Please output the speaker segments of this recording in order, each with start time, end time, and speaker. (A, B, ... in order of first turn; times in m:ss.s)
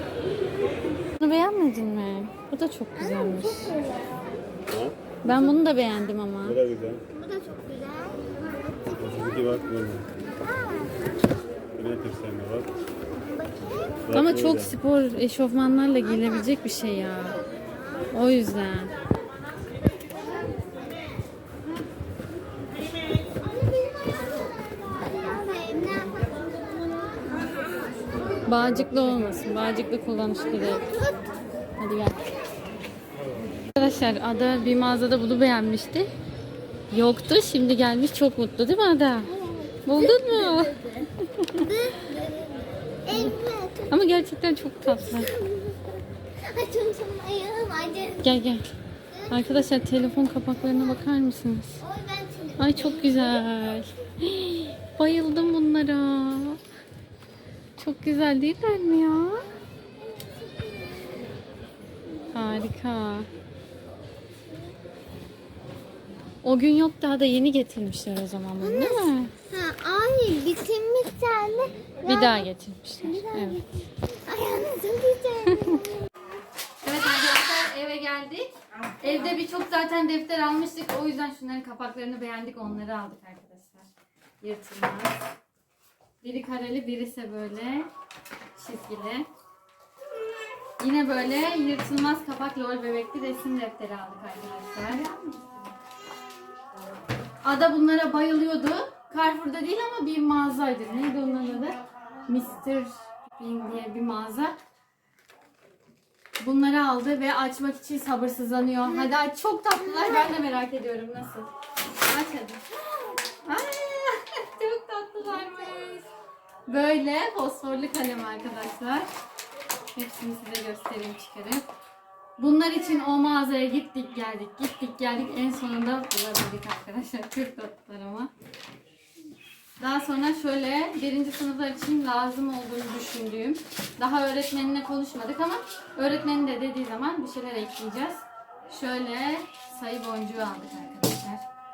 0:01.2-0:03.7 A
0:03.0-0:04.3 B
0:04.7-0:05.0 C
0:05.2-0:06.6 A
0:06.4-0:07.0 C
0:07.1-0:09.5 B
0:08.9-0:10.1 C
0:10.4-0:11.1 B
0:11.7-0:12.7 C
0:13.3-0:14.0 B
0:14.1-0:14.8 C
0:14.1-0:17.4 A
0:17.6-0:18.0 B
0:18.1-0:18.9 A
0:20.1-0:20.9 B
0:23.4-0:27.7 B
0:28.5-0:30.9 A
0:30.6-0:31.3 B
0:31.8-0:32.2 A
0:33.8-0:36.1 A
0:36.9-0:39.3 A
0:39.3-0:40.7 B
0:39.8-0:41.6 A
0:41.6-0:43.9 B
0:43.9-0:45.3 A
0:44.9-0:48.4 B
0:48.2-0:48.6 A
0:49.1-0:49.7 B
0:49.3-0:51.8 A
0:51.8-0:53.5 B
0:52.6-0:56.6 A
0:57.8-0:59.4 A
1:02.3-1:03.3 A
1:06.4-1:09.3 A
1:08.6-1:12.4 B
1:12.0-1:13.6 A
1:13.0-1:16.0 B
1:15.5-1:15.7 A
1:16.8-1:23.8 A
1:24.4-1:25.2 A
1:26.2-1:27.9 A
1:28.6-1:29.3 A
1:30.8-1:35.7 A
1:37.4-1:44.5 A
1:46.4-1:51.5 A
1:49.9-1:50.3 B
1:52.1-1:52.6 A
1:53.4-1:56.1 A
1:56.7-1:59.1 A
1:59.9-2:01.7 A
2:02.4-2:08.3 A
2:09.8-2:21.4 A